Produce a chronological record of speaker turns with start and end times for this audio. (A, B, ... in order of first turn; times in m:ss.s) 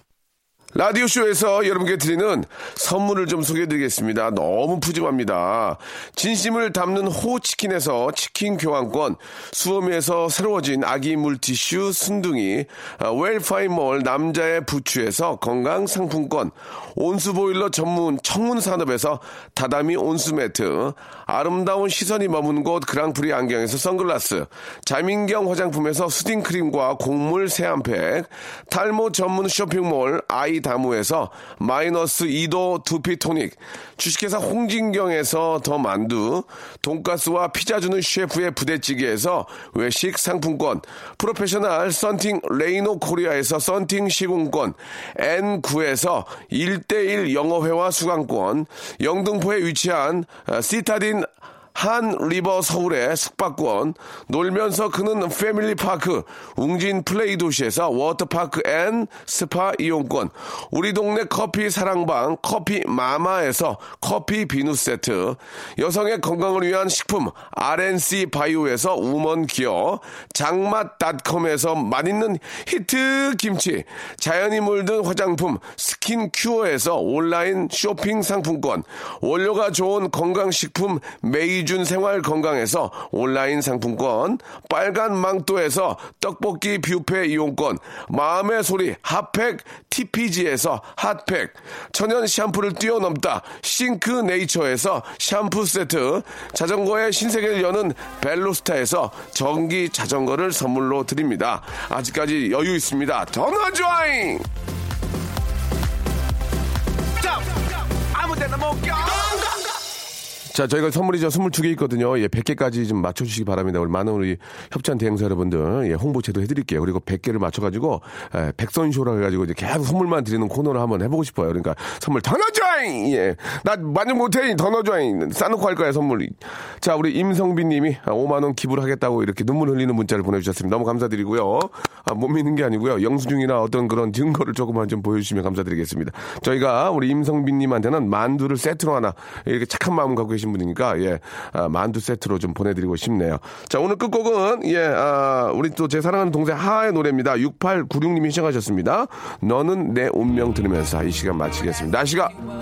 0:00.7-1:44.5 A
1:47.2-1:47.5 A
1:48.1-1:49.4 A
1:50.5-2:32.4 A